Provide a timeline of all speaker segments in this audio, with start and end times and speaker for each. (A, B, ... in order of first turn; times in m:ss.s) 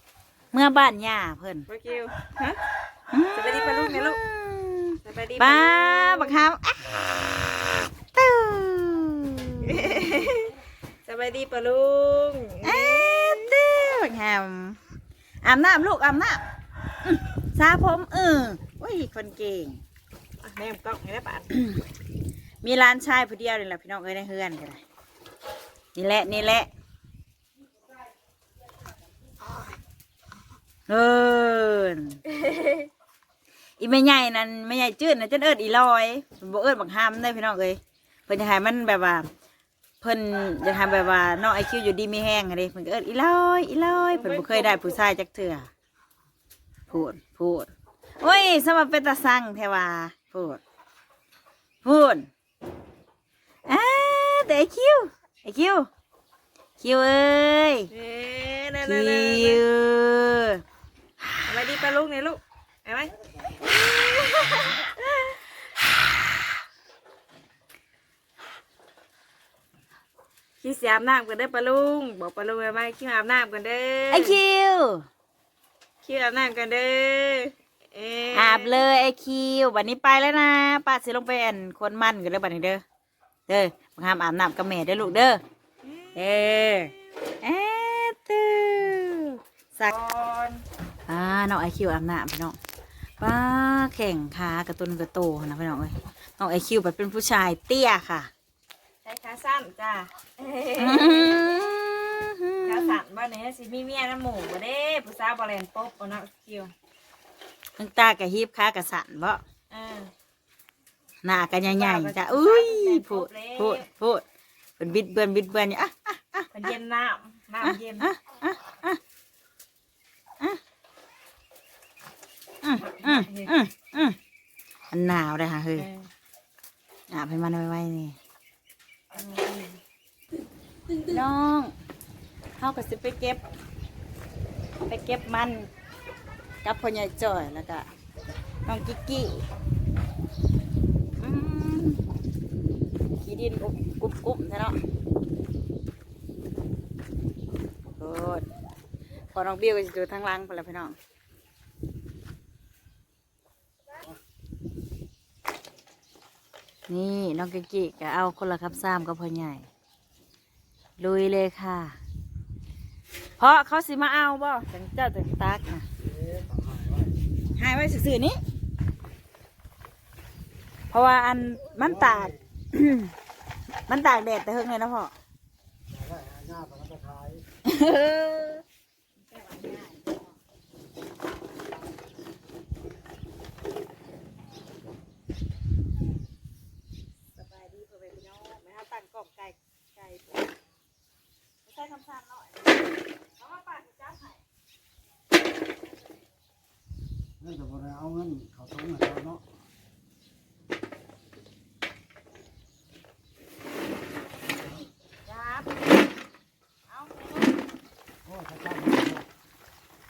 0:00.5-0:01.7 A
0:01.7-0:02.6 B
0:03.1-0:06.9 A
0:03.4-0:04.2 B
0:05.0-0:06.5 B
0:08.1-0:10.3 A
0:09.6-0:13.5 B
0:12.6-0:14.8 A
0:15.4-0:16.4 A
0:17.0-0:19.8 A
0:20.4-0:21.5 B
0:21.5-0:21.8 A
0:22.6-0:24.8 A
0:26.0-0:26.7 A
0:30.9-0:32.2 A
0:33.8-0:39.3 A
0:40.0-0:45.7 A
0:44.1-0:45.0 B
0:46.9-0:47.7 A
0:48.2-0:50.6 A
0:51.8-0:52.3 A
0:53.7-0:55.9 A
0:56.8-0:57.9 A
0:57.9-0:59.6 B
0:58.8-1:00.6 A
1:01.4-1:05.4 B
1:10.6-1:14.4 B
1:14.1-1:15.0 A
1:16.0-1:18.8 B
1:18.3-1:22.8 A
1:23.5-1:25.4 A
1:26.2-1:29.9 A
1:29.9-1:30.6 B
1:31.1-1:32.6 A
1:33.2-1:38.3 A
1:39.0-1:41.7 B
1:40.8-1:43.0 A
1:42.6-1:46.7 B
1:47.8-1:49.4 A
1:49.7-1:50.1 B
1:51.2-1:54.2 A
1:51.6-1:53.8 B
1:54.8-1:56.7 A
1:56.5-1:58.1 B
1:57.6-1:59.0 A
2:02.6-2:04.2 A
2:03.0-2:03.5 B
2:04.9-2:05.9 A
2:05.8-2:06.1 B
2:07.1-2:08.2 A
2:09.1-2:09.8 B
2:11.1-2:11.7 A
2:12.6-2:13.4 A
2:14.9-2:15.7 A
2:16.6-2:17.9 A
2:18.7-2:19.4 A
2:21.2-2:22.0 A
2:23.2-2:24.8 A
2:28.0-2:28.5 A
2:29.3-2:31.0 A
2:36.9-2:39.7 A
2:41.0-2:42.0 A
2:43.4-2:45.8 A
2:46.1-2:47.1 C
2:47.6-2:48.4 A
2:50.9-2:53.1 A
2:53.9-2:55.1 A
2:55.9-2:57.4 C
2:57.6-2:58.6 A
2:59.3-3:00.2 A
3:07.4-3:10.3 A
3:11.7-3:12.6 A
3:13.4-3:14.4 A
3:17.4-3:19.4 C
3:25.3-3:25.8 B
3:26.9-3:27.5 B
3:28.3-3:29.3 C